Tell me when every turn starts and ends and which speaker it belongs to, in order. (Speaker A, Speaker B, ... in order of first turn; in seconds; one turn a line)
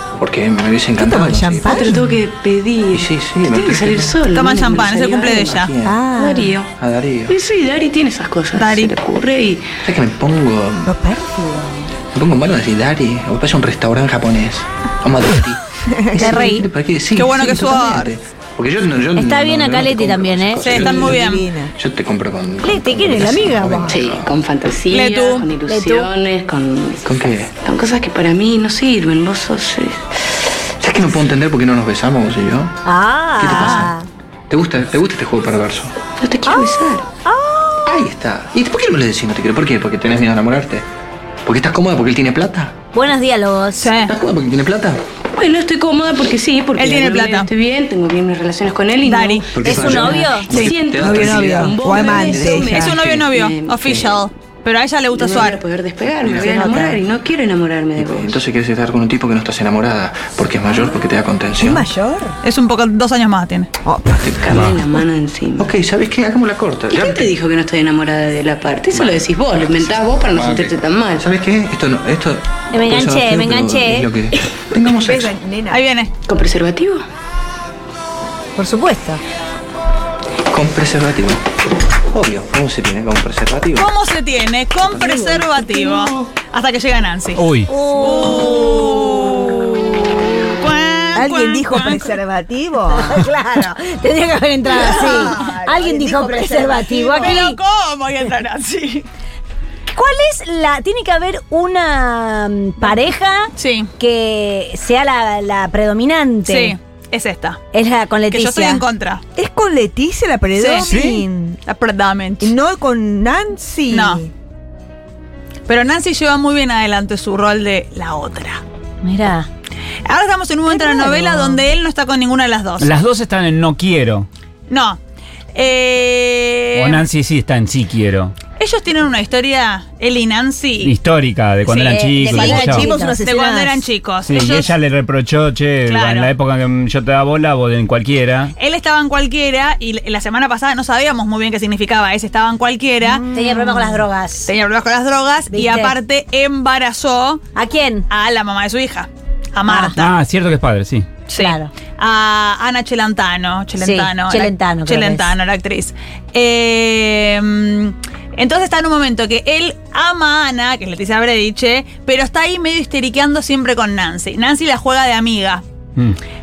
Speaker A: 0.2-2.0
Speaker B: 1.0-2.0
Speaker C: 1.6-6.7
Speaker A: 2.9-4.2
Speaker D: 4.3-5.7
Speaker A: 5.5-6.0
Speaker B: 5.8-6.5
Speaker A: 6.8-7.3
Speaker C: 7.3-9.7
Speaker D: 8.6-8.9
Speaker A: 9.8-10.9
Speaker B: 10.9-11.6
Speaker A: 12.1-24.3
Speaker B: 15.9-16.6
Speaker E: 16.2-16.7
Speaker D: 17.1-18.1
Speaker E: 19.2-20.7
Speaker D: 20.6-21.5
Speaker B: 20.7-21.8
Speaker E: 22.6-23.9
Speaker C: 23.9-30.1
Speaker D: 24.9-25.5
Speaker E: 25.7-26.1
Speaker A: 27.0-27.5
Speaker A: 30.8-32.8
Speaker E: 32.9-34.1
Speaker A: 33.4-34.0
Speaker D: 33.6-33.9
Speaker A: 34.5-35.9
Speaker C: 36.2-37.1
Speaker E: 36.5-38.0
Speaker A: 37.9-40.9
Speaker A: 41.5-42.7
Speaker E: 42.9-43.9
Speaker D: 43.8-44.1
Speaker A: 44.1-45.0
Speaker C: 45.4-54.1
Speaker D: 46.8-47.5
Speaker D: 49.0-49.5
Speaker A: 49.5-53.4
Speaker E: 49.6-50.5
Speaker B: 50.5-52.8
Speaker D: 52.7-55.6
Speaker C: 55.1-58.4
Speaker A: 56.0-57.0
Speaker A: 58.0-61.9
Speaker B: 61.6-62.4
Speaker D: 62.4-63.7
Speaker B: 63.9-64.3
Speaker A: 64.2-64.8
Speaker C: 64.4-65.7
Speaker A: 65.6-67.3
Speaker C: 66.9-71.3
Speaker A: 68.9-69.2
Speaker A: 69.9-75.3
Speaker E: 72.7-74.1
Speaker B: 75.0-75.8
Speaker D: 75.7-76.1
Speaker C: 76.3-77.0
Speaker E: 78.6-79.2
Speaker A: 80.5-81.4
Speaker A: 82.1-83.9
Speaker D: 83.8-87.5
Speaker A: 84.9-85.7
Speaker F: 87.4-87.7
Speaker E: 87.7-89.4
Speaker D: 88.0-89.9
Speaker D: 90.5-92.2
Speaker B: 91.2-93.3
Speaker E: 92.9-97.6
Speaker B: 94.7-97.5
Speaker D: 94.8-95.4
Speaker D: 97.2-99.1
Speaker E: 99.9-106.8
Speaker D: 103.6-103.9
Speaker D: 106.5-107.6
Speaker E: 107.7-108.8
Speaker D: 108.3-109.2
Speaker B: 109.4-111.6
Speaker D: 110.6-110.9
Speaker F: 110.8-111.2
Speaker D: 111.7-112.5
Speaker B: 112.4-114.3
Speaker D: 113.9-114.2
Speaker D: 115.7-118.6
Speaker E: 119.0-119.5
Speaker D: 120.0-122.9
Speaker E: 120.7-121.6
Speaker F: 122.8-124.3
Speaker D: 124.7-125.0
Speaker D: 125.5-127.0
Speaker F: 126.8-128.3
Speaker D: 128.6-130.9
Speaker F: 130.8-132.9
Speaker D: 131.7-132.0
Speaker E: 131.9-133.2
Speaker B: 132.2-133.9
Speaker D: 133.2-134.7
Speaker F: 134.3-138.5
Speaker D: 135.9-136.3
Speaker D: 138.6-143.2
Speaker B: 143.0-144.1
Speaker E: 143.3-144.5
Speaker D: 144.5-147.4
Speaker E: 145.5-145.9
Speaker E: 147.6-148.1
Speaker D: 148.1-150.2
Speaker E: 149.7-149.9
Speaker F: 150.0-151.1
Speaker D: 151.3-165.6
Speaker E: 151.3-151.7
Speaker E: 153.8-155.3